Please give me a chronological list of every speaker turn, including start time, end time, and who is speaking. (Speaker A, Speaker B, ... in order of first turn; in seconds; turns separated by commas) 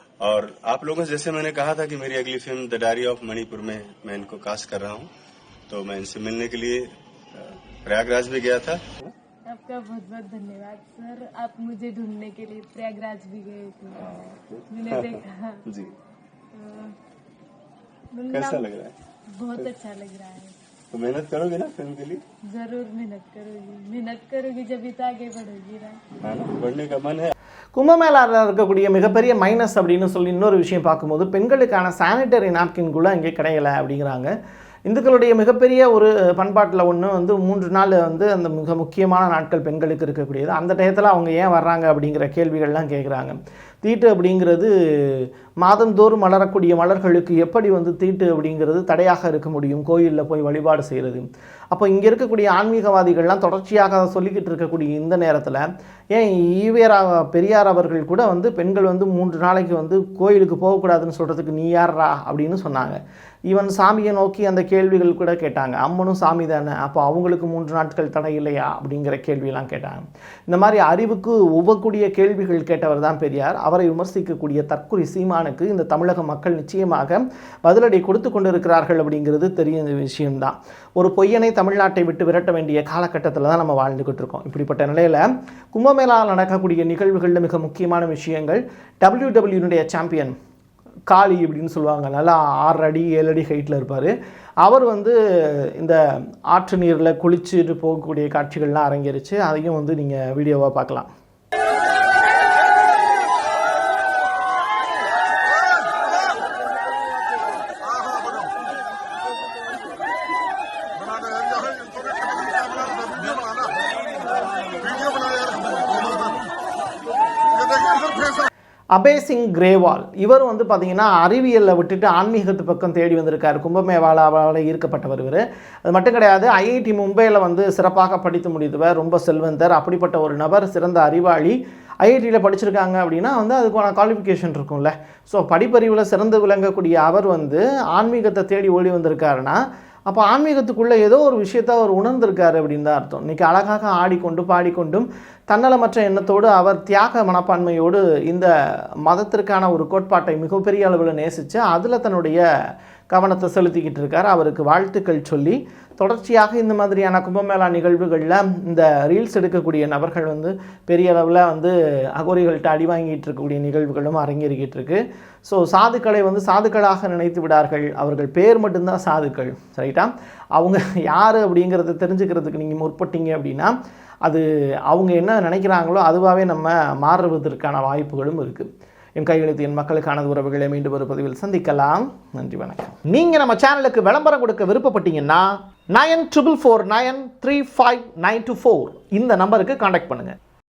Speaker A: 0.2-5.1, Speaker A: 5.7-6.8, Speaker A: 7.3-9.1, Speaker B: 9.5-14.1, Speaker A: 14.0-15.9, Speaker B: 14.7-15.6, Speaker B: 16.5-16.9, Speaker B: 18.1-18.6, Speaker A: 18.3-18.9, Speaker B: 19.3-20.5, Speaker A: 20.9-22.2, Speaker B: 22.5-26.0, Speaker A: 26.2-27.3, Speaker C: 27.7-34.3, Speaker C: 34.9-90.3, Speaker C: 91.1-94.1, Speaker C: 94.6-101.1, Speaker C: 118.9-148.5, Speaker C: 149.1-152.4, Speaker C: 153.1-173.7, Speaker C: 174.2-190.3